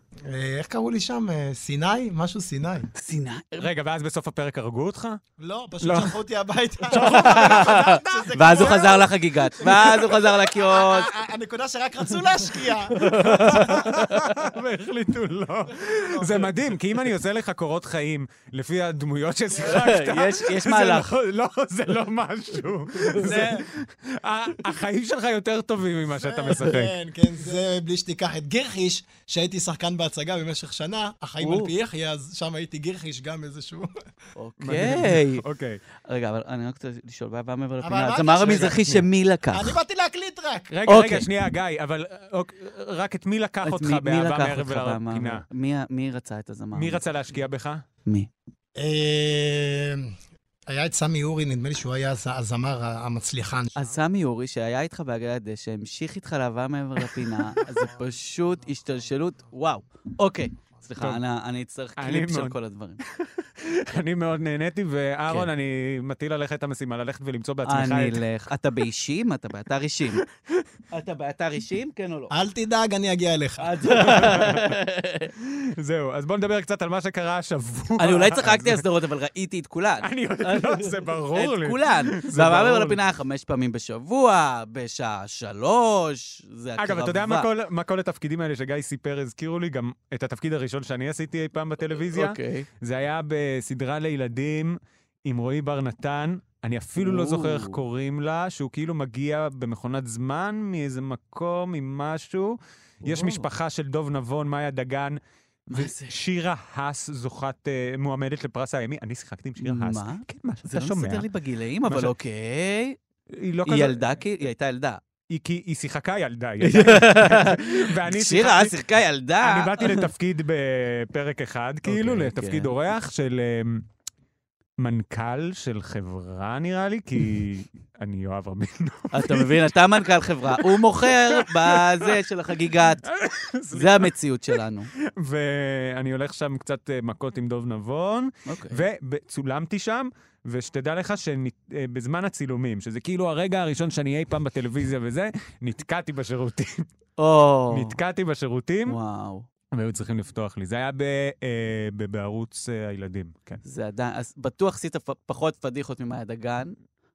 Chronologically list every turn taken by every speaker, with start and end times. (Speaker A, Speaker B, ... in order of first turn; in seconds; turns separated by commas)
Speaker A: 0.2-2.9, Speaker B: 3.0-3.7, Speaker C: 3.6-5.2, Speaker A: 5.4-13.7, Speaker C: 5.8-6.2, Speaker C: 6.9-9.0, Speaker B: 6.9-11.1, Speaker C: 9.6-10.2, Speaker B: 12.9-14.5, Speaker C: 13.0-26.9, Speaker A: 15.9-16.5, Speaker B: 19.6-21.1, Speaker B: 23.0-23.4, Speaker A: 23.2-23.7, Speaker A: 26.1-33.9, Speaker B: 31.4-31.7, Speaker B: 34.4-35.5, Speaker C: 34.6-35.8, Speaker B: 36.0-39.8, Speaker A: 37.8-38.9, Speaker C: 38.7-39.1, Speaker A: 39.5-40.8, Speaker C: 40.7-45.5, Speaker B: 40.9-41.3, Speaker B: 43.6-47.0, Speaker C: 46.7-47.8, Speaker A: 48.8-50.1, Speaker A: 50.7-54.0, Speaker B: 53.8-63.0, Speaker A: 58.7-59.0, Speaker C: 62.0-68.2, Speaker B: 67.7-70.2, Speaker C: 70.2-70.7, Speaker B: 70.9-72.3, Speaker A: 72.3-74.5, Speaker B: 73.6-75.3, Speaker C: 74.1-74.7, Speaker C: 75.4-78.8, Speaker B: 78.0-87.5, Speaker C: 80.0-83.0, Speaker C: 86.8-105.2, Speaker B: 91.9-92.7, Speaker B: 97.0-97.8, Speaker B: 103.0-103.5, Speaker B: 105.7-106.2, Speaker C: 105.7-111.3, Speaker B: 109.6-113.0, Speaker C: 113.3-114.1, Speaker B: 113.7-115.0, Speaker C: 115.3-118.8, Speaker B: 116.6-120.1, Speaker C: 119.4-123.9, Speaker B: 121.9-122.7, Speaker C: 124.8-129.8, Speaker B: 129.1-133.1, Speaker C: 130.5-132.2, Speaker C: 133.0-134.1, Speaker B: 133.7-134.9, Speaker C: 135.0-146.9, Speaker B: 138.5-138.8, Speaker B: 147.2-148.0, Speaker C: 147.7-149.0, Speaker B: 148.9-149.5, Speaker C: 149.7-153.6, Speaker B: 153.6-156.8